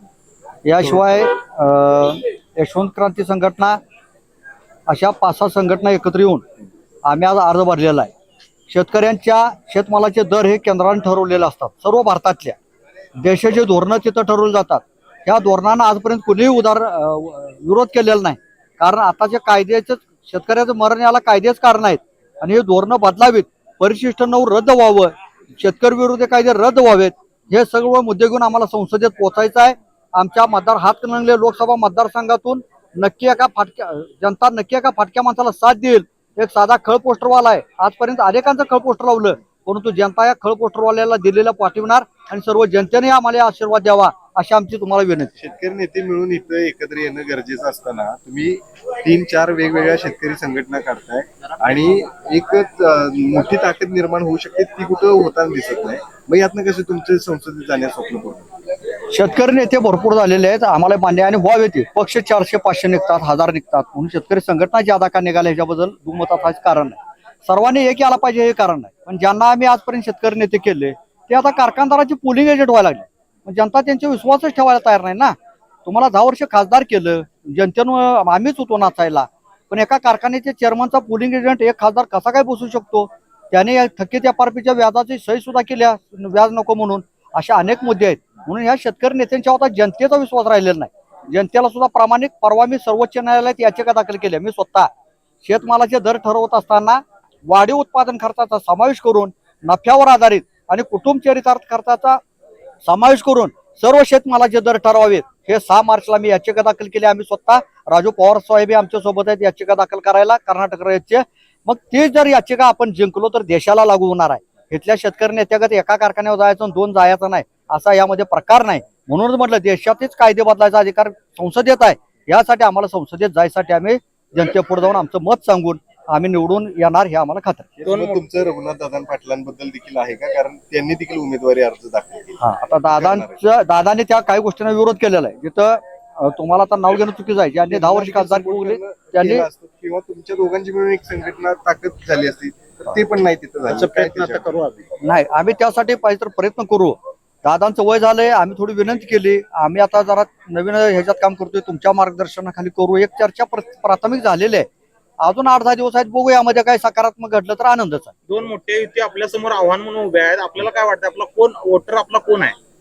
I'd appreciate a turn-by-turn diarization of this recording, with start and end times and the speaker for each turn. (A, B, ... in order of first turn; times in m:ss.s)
0:00.6-0:03.8 A
0:04.9-0:06.4 A
0:07.0-0:08.1 A
0:08.7-0:12.6 A
0:13.2-0:45.3 A
0:45.4-0:58.5 B
0:59.1-1:34.9 A
1:35.4-1:42.2 A
1:42.8-2:07.7 A
2:07.8-2:13.4 B
2:07.8-2:08.2 C
2:12.4-2:19.5 A
2:17.6-2:24.5 B
2:23.6-2:24.9 C
2:25.0-2:34.7 A
2:35.2-2:38.1 A
2:38.3-2:42.6 C